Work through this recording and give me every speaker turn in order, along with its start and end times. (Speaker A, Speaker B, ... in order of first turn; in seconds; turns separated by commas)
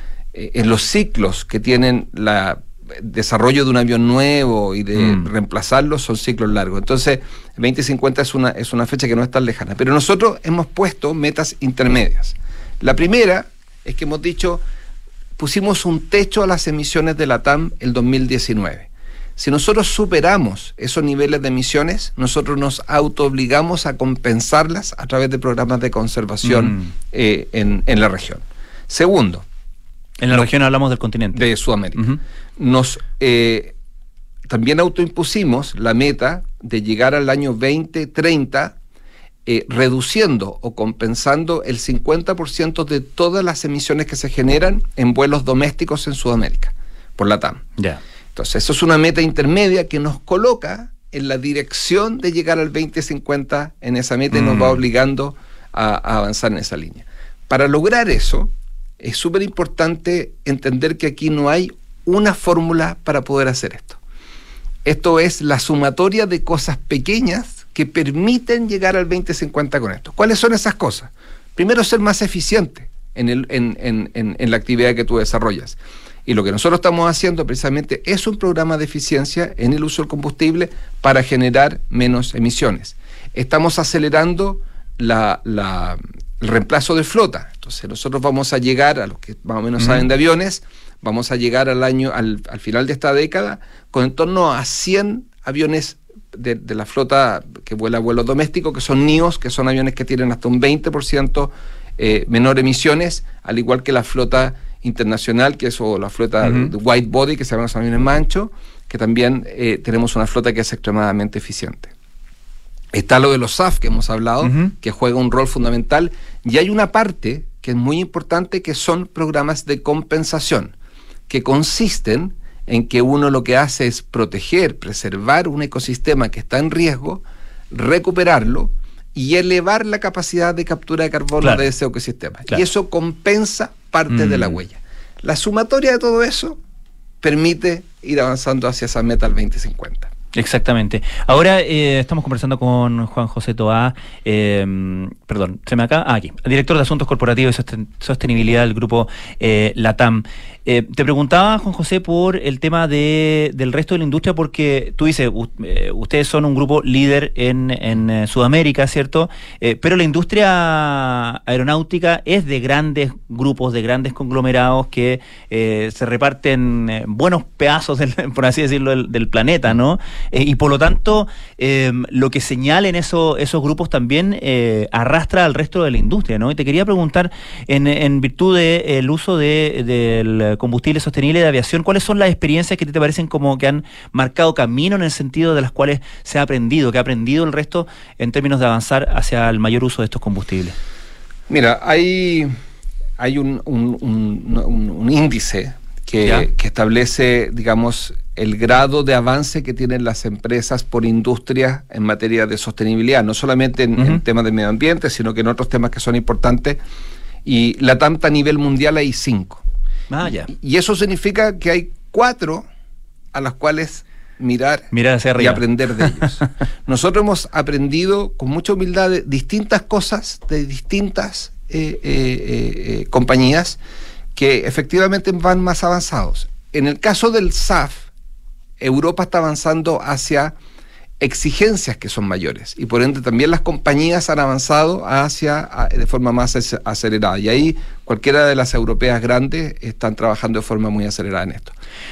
Speaker A: 0.3-14.6, Speaker B: 5.0-5.3, Speaker A: 15.4-29.4, Speaker B: 26.4-26.9, Speaker B: 30.2-31.4, Speaker A: 31.3-33.7, Speaker A: 34.5-38.7, Speaker A: 39.5-47.7, Speaker A: 48.3-64.0, Speaker B: 54.3-54.8, Speaker A: 64.8-111.9, Speaker B: 89.8-90.0, Speaker B: 106.4-106.7, Speaker A: 112.9-120.7, Speaker B: 114.4-114.7, Speaker A: 121.3-136.6, Speaker B: 131.4-131.7, Speaker B: 134.1-134.6, Speaker A: 137.2-140.1, Speaker B: 140.3-190.8, Speaker A: 191.5-192.5, Speaker A: 193.2-206.8, Speaker B: 196.2-196.5, Speaker B: 204.0-204.2, Speaker A: 207.4-209.6, Speaker B: 210.1-210.5, Speaker A: 210.5-212.7, Speaker A: 213.3-223.8, Speaker B: 214.9-216.4, Speaker A: 224.3-228.1, Speaker A: 228.8-230.5, Speaker A: 231.2-241.7